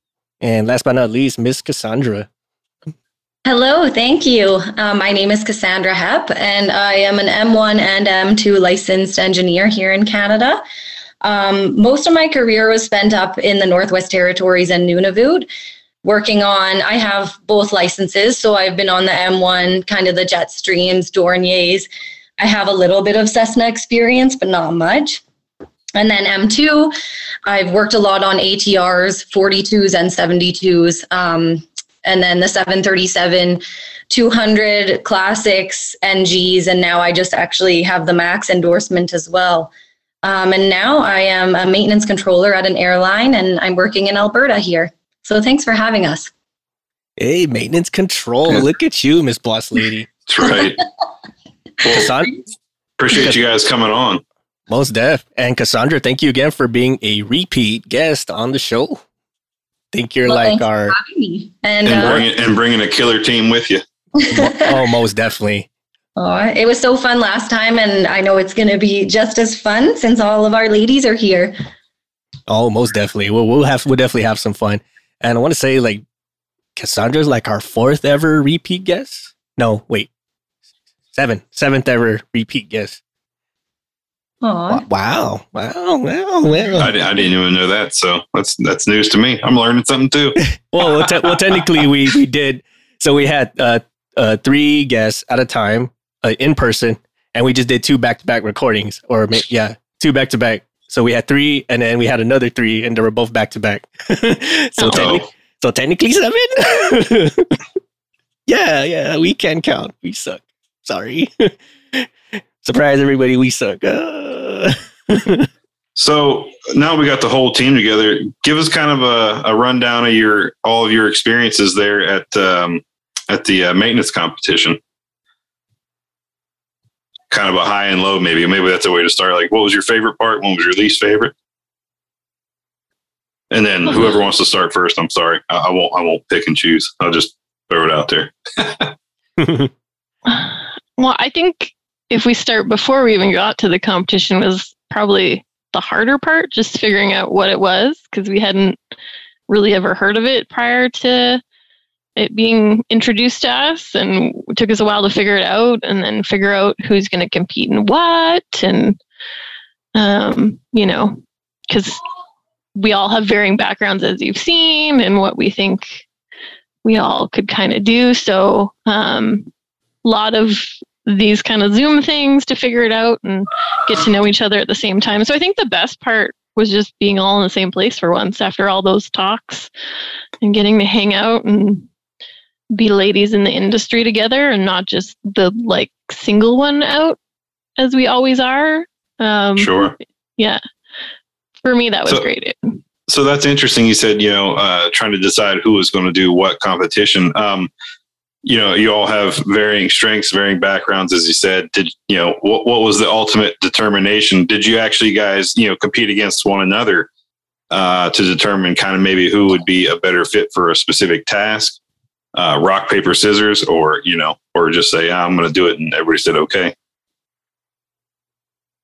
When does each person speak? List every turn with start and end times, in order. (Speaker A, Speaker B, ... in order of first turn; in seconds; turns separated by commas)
Speaker A: 0.4-2.3, Speaker B: 3.5-10.6, Speaker B: 11.2-15.5, Speaker B: 16.0-21.9, Speaker B: 22.4-25.2, Speaker B: 25.9-26.9, Speaker B: 27.4-39.7, Speaker B: 40.2-46.3, Speaker A: 47.2-50.1, Speaker C: 50.3-50.8, Speaker A: 51.8-52.4, Speaker C: 53.0-54.2, Speaker A: 53.1-53.4, Speaker A: 54.7-59.0, Speaker A: 59.9-61.0, Speaker B: 60.2-62.2, Speaker C: 61.9-63.8, Speaker B: 64.2-64.6, Speaker A: 64.3-65.7, Speaker B: 66.2-71.5, Speaker A: 72.5-76.0, Speaker A: 76.8-80.1, Speaker A: 81.1-83.0, Speaker B: 84.4-84.8, Speaker A: 84.7-86.9, Speaker C: 86.8-91.3, Speaker A: 90.5-107.6, Speaker D: 104.8-105.2, Speaker C: 104.8-105.2, Speaker A: 108.5-112.1, Speaker A: 112.6-115.5, Speaker C: 116.0-124.8, Speaker C: 127.3-131.3, Speaker C: 133.5-138.9, Speaker A: 139.4-139.7, Speaker D: 140.3-148.8, Speaker D: 149.5-151.4, Speaker D: 152.2-159.0, Speaker D: 159.9-162.0, Speaker D: 162.8-166.0, Speaker D: 166.8-169.5, Speaker D: 170.0-179.7, Speaker D: 180.4-181.9, Speaker D: 182.7-187.2, Speaker D: 187.8-190.6, Speaker C: 189.6-189.9, Speaker D: 191.6-192.8, Speaker C: 193.1-197.7, Speaker C: 198.4-207.1, Speaker C: 207.7-211.8, Speaker C: 212.3-216.7